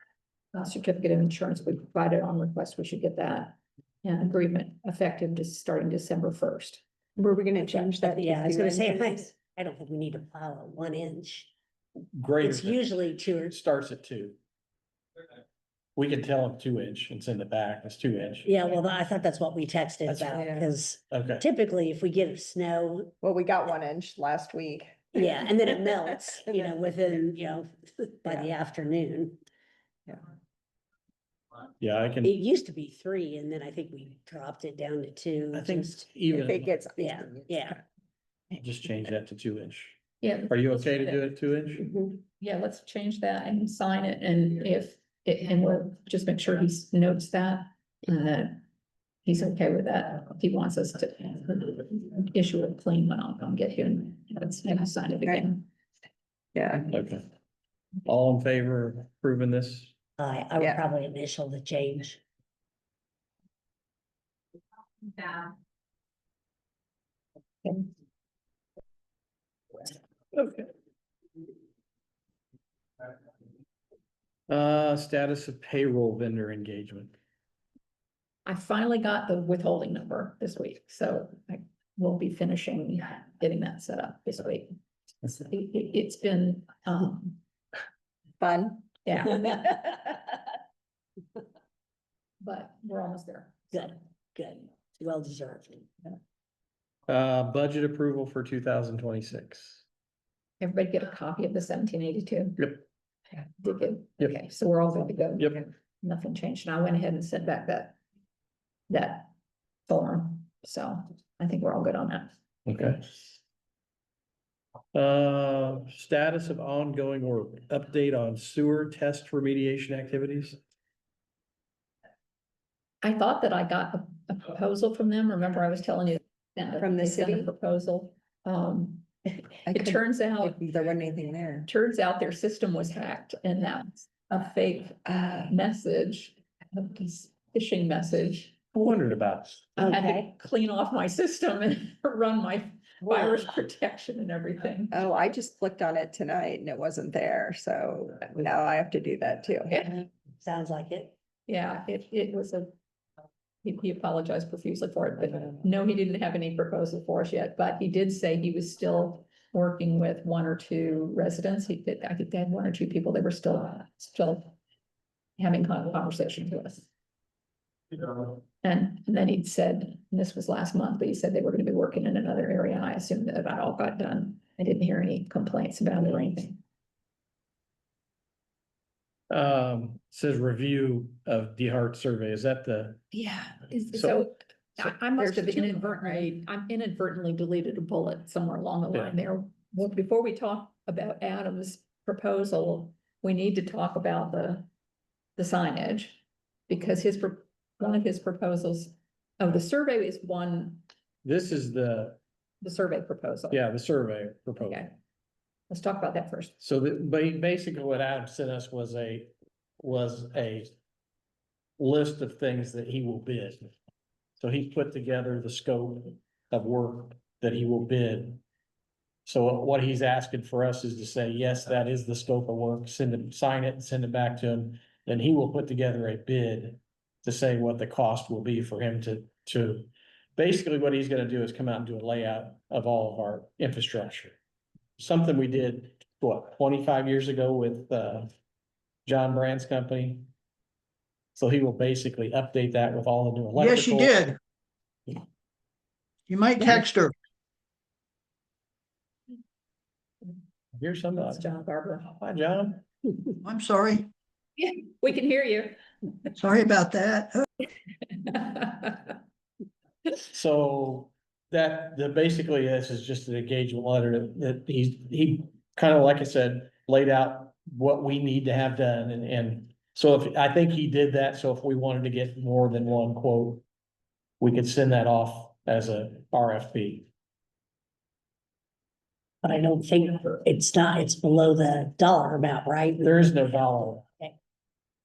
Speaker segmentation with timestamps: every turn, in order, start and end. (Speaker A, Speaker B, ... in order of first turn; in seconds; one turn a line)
Speaker A: 0.5-6.8
Speaker B: 7.2-9.2
Speaker C: 8.0-11.5
Speaker D: 12.1-14.4
Speaker C: 12.4-13.6
Speaker D: 15.9-18.5
Speaker C: 18.4-23.1
Speaker B: 20.3-20.7
Speaker D: 21.1-21.4
Speaker B: 23.2-25.3
Speaker C: 25.1-29.4
Speaker B: 28.2-28.5
Speaker D: 31.8-32.3
Speaker C: 32.2-36.1
Speaker D: 35.5-36.7
Speaker B: 36.3-37.8
Speaker C: 37.0-37.8
Speaker D: 38.6-41.9
Speaker A: 40.2-41.3
Speaker B: 41.8-42.2
Speaker A: 42.4-48.6
Speaker A: 49.2-55.7
Speaker B: 56.5-56.9
Speaker D: 56.9-57.2
Speaker D: 58.0-59.9
Speaker C: 60.2-62.2
Speaker D: 70.3-70.7
Speaker D: 74.5-77.1
Speaker A: 78.5-87.4
Speaker B: 88.4-88.9
Speaker A: 89.0-89.7
Speaker A: 92.4-94.0
Speaker C: 93.7-95.9
Speaker D: 97.1-99.8
Speaker A: 100.6-102.7
Speaker D: 102.6-102.8
Speaker A: 103.6-108.0
Speaker A: 108.9-109.3
Speaker A: 109.9-112.3
Speaker D: 112.7-113.2
Speaker D: 114.9-120.6
Speaker A: 123.0-130.6
Speaker B: 126.8-127.5
Speaker B: 129.7-131.7
Speaker A: 131.7-138.5
Speaker B: 135.1-135.5
Speaker D: 138.7-139.7
Speaker C: 139.8-140.3
Speaker A: 139.8-145.0
Speaker B: 144.9-150.0
Speaker C: 150.4-151.1
Speaker A: 151.5-152.7
Speaker A: 153.6-164.6
Speaker A: 165.4-166.9
Speaker A: 168.0-176.6
Speaker D: 179.3-183.0
Speaker B: 183.1-183.7
Speaker A: 183.7-194.7
Speaker D: 183.9-184.2
Speaker B: 185.2-186.3
Speaker A: 195.4-200.8
Speaker D: 201.2-202.2
Speaker A: 202.6-203.6
Speaker D: 203.5-204.8
Speaker A: 204.6-204.9
Speaker A: 205.7-206.5
Speaker D: 206.6-210.7
Speaker D: 211.8-213.7
Speaker D: 214.4-218.4
Speaker D: 219.2-234.4
Speaker D: 235.0-238.3
Speaker D: 239.1-240.3
Speaker D: 241.3-244.1
Speaker E: 243.6-244.4
Speaker E: 246.3-247.1
Speaker D: 250.8-251.5
Speaker A: 251.2-252.1
Speaker D: 252.1-252.8
Speaker E: 253.4-254.1
Speaker A: 254.6-255.8
Speaker E: 256.4-257.4
Speaker A: 258.2-259.0
Speaker D: 260.3-273.6
Speaker D: 274.4-277.1
Speaker C: 279.4-283.2
Speaker A: 280.1-280.4
Speaker D: 283.0-284.0